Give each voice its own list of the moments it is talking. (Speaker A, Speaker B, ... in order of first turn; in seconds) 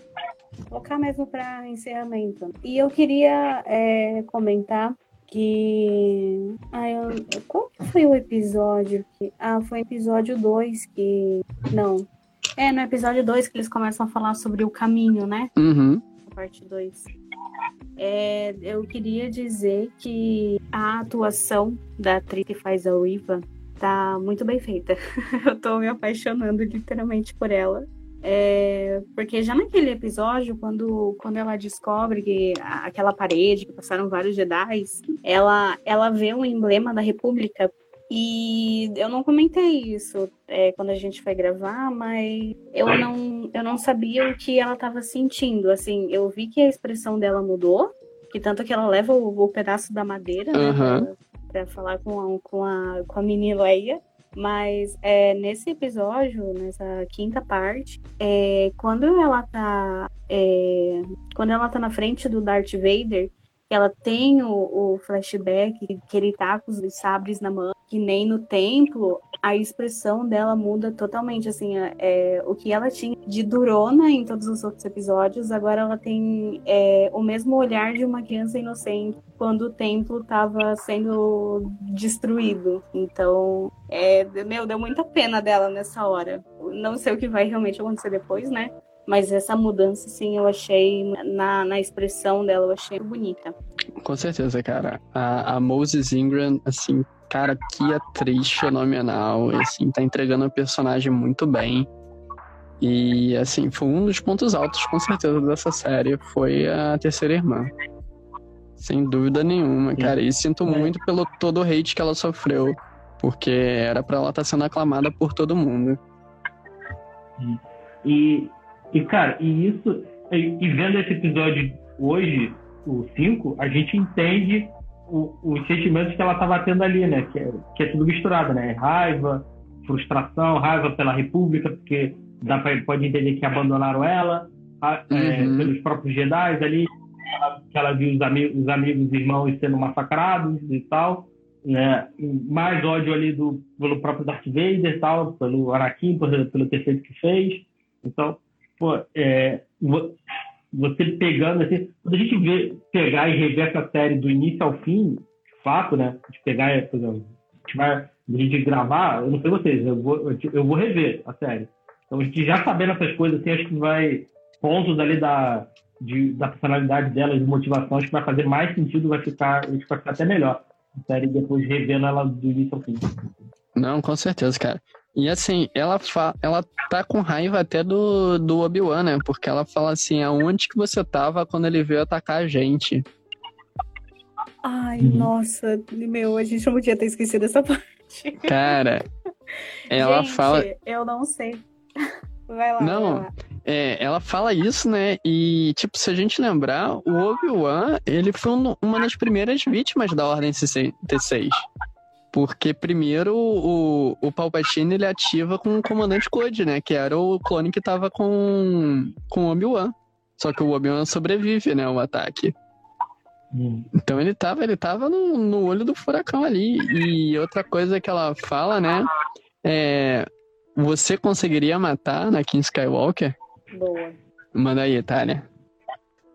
Speaker A: 0.7-12.1, 12.6-15.5, 16.2-17.1, 18.0-93.5, 184.6-188.8, 189.9-191.6, 192.5-193.3, 223.7-224.2
Speaker B: 15.6-16.0, 50.5-51.1, 94.0-101.9, 102.8-107.7, 108.8-116.0, 135.1-135.7, 173.8-183.1, 188.5-189.1, 189.9-190.7, 192.8-201.7, 202.3-212.5, 213.9-219.1, 219.6-223.3, 224.6-225.5
Speaker C: 110.0-110.9, 117.4-150.2, 150.7-173.3, 213.5-213.9